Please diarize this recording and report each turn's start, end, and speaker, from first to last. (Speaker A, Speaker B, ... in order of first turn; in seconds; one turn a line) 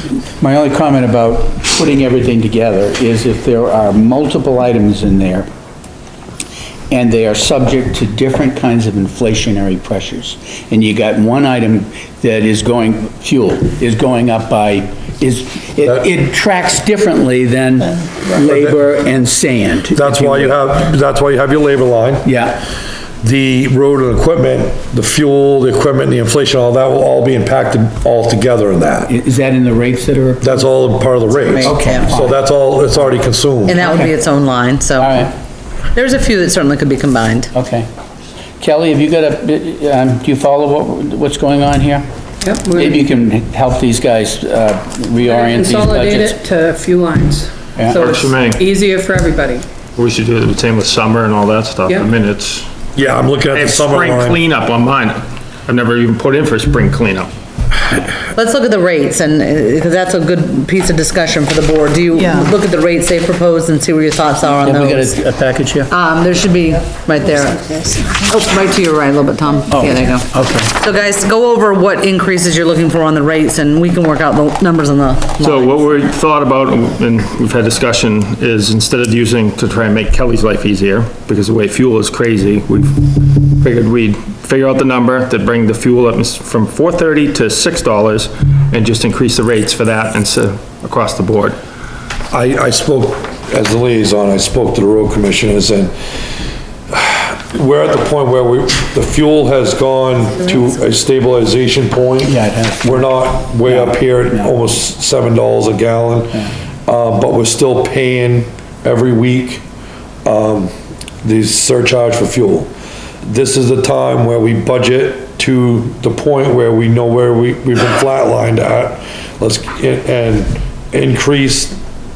Speaker A: 0.4-5.5
Speaker A: 6.9-20.6
Speaker B: 18.3-18.8
Speaker B: 19.9-22.3
Speaker A: 22.2-22.6
Speaker B: 23.2-29.1
Speaker A: 29.1-30.7
Speaker B: 30.4-33.8
Speaker C: 31.4-32.1
Speaker A: 31.6-32.4
Speaker C: 33.7-35.1
Speaker A: 33.8-34.1
Speaker A: 35.0-35.3
Speaker C: 35.9-37.5
Speaker A: 37.5-37.9
Speaker A: 38.6-42.0
Speaker D: 42.4-43.0
Speaker A: 42.7-46.4
Speaker D: 45.2-49.6
Speaker A: 47.8-48.0
Speaker E: 47.9-48.6
Speaker E: 50.0-52.7
Speaker D: 51.9-52.1
Speaker B: 52.9-54.4
Speaker E: 53.5-57.3
Speaker C: 58.3-65.1
Speaker A: 64.6-65.9
Speaker C: 65.9-75.9
Speaker A: 69.7-70.7
Speaker E: 75.4-91.6
Speaker B: 92.3-96.0
Speaker B: 96.9-109.6
Speaker A: 102.2-104.5
Speaker B: 110.2-112.7
Speaker B: 113.2-121.8